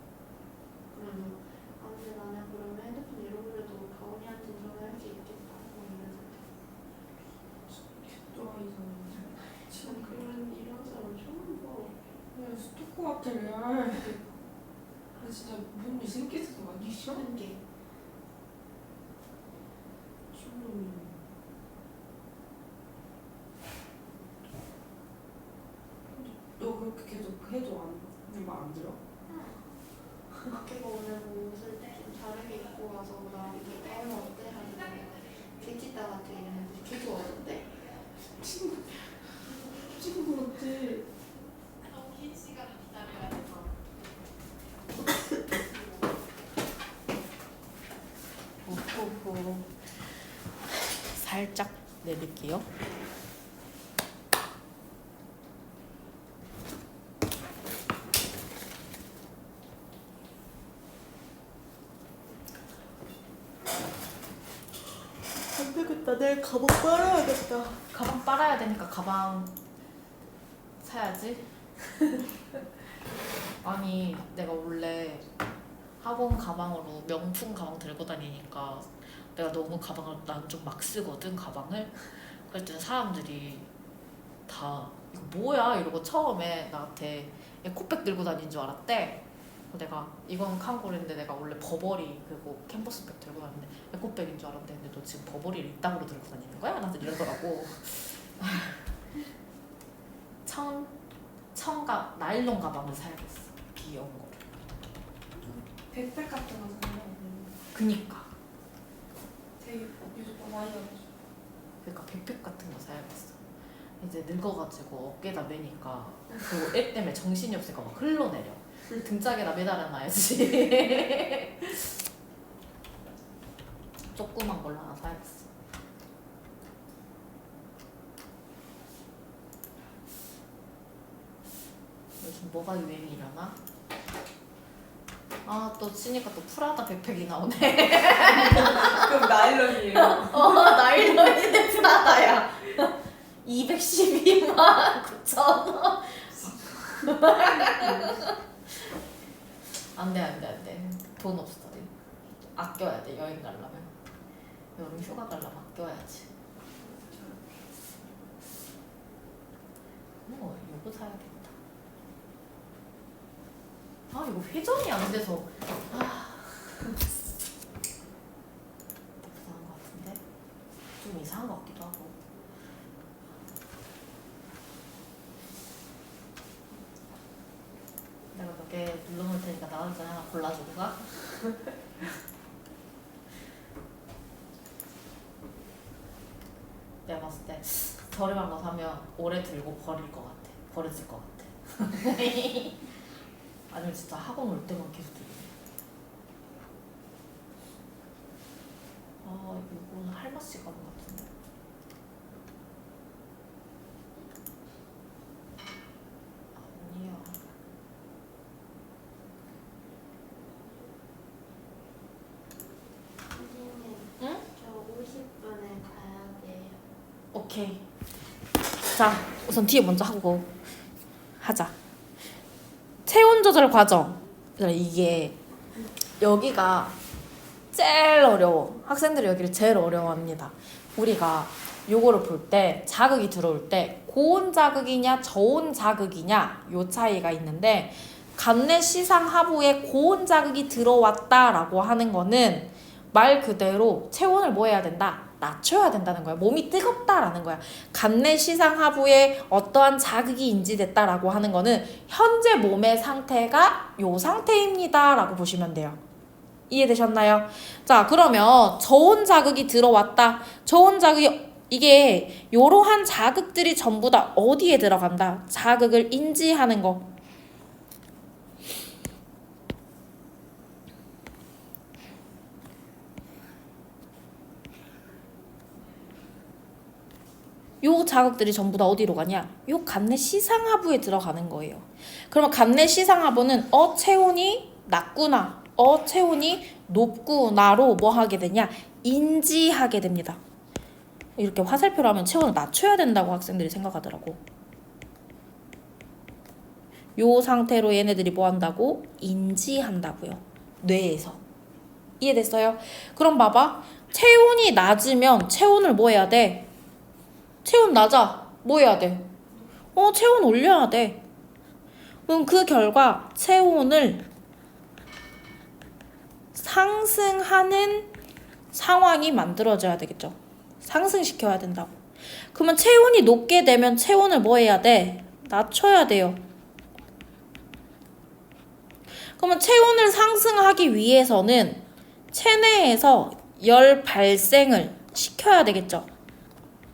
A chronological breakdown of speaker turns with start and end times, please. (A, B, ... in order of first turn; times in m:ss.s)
0:00.9-0:06.5 A
0:07.7-0:10.3 B
0:09.7-0:12.0 A
0:12.3-0:14.2 B
0:13.9-0:14.2 A
0:15.2-0:17.2 B
0:17.0-0:17.6 A
0:20.3-0:21.2 B
0:26.1-0:29.0 B
0:29.3-0:29.6 A
0:30.4-0:37.8 A
0:38.2-0:39.1 B
0:39.9-0:41.1 B
0:48.6-0:49.8 C
0:51.0-0:52.7 C
1:05.5-1:07.7 B
1:07.9-1:09.5 C
1:10.8-1:11.5 C
1:13.6-1:15.2 C
1:16.0-1:23.7 C
1:24.5-1:38.8 C
1:40.4-1:40.9 C
1:41.5-1:44.4 C
1:45.4-1:47.5 B
1:47.7-1:48.3 C
1:49.6-1:51.1 B
1:51.8-1:53.4 C
1:54.0-2:01.9 C
2:04.1-2:05.5 C
2:12.2-2:13.6 C
2:15.4-2:19.2 C
2:18.2-2:20.8 B
2:19.8-2:26.3 C
2:26.3-2:28.2 B
2:27.0-2:28.4 C
2:29.9-2:31.9 C
2:32.5-2:33.9 C
2:34.8-2:36.3 C
2:37.0-2:37.4 B
2:40.2-2:41.5 C
2:44.1-2:47.0 C
2:49.2-2:50.2 C
2:51.0-2:52.2 C
2:58.3-3:01.5 C
3:07.0-3:12.8 C
3:13.7-3:15.5 C
3:19.2-3:21.3 C
3:26.5-3:27.4 C
3:33.3-3:36.8 A
3:37.3-3:37.8 C
3:38.9-3:40.5 C
3:41.4-3:41.7 C
3:43.0-3:45.4 C
3:46.2-3:47.0 C
3:47.7-4:16.0 C
4:16.7-4:27.1 C
4:37.8-4:50.4 C
4:51.4-4:54.4 C
4:57.2-5:01.4 C
5:02.2-5:06.7 C
5:07.6-5:09.3 C
5:09.9-5:11.2 C
5:12.3-5:14.2 C
5:16.5-5:18.1 C
5:18.7-5:21.9 C
5:22.5-5:26.4 C
5:29.4-5:36.1 C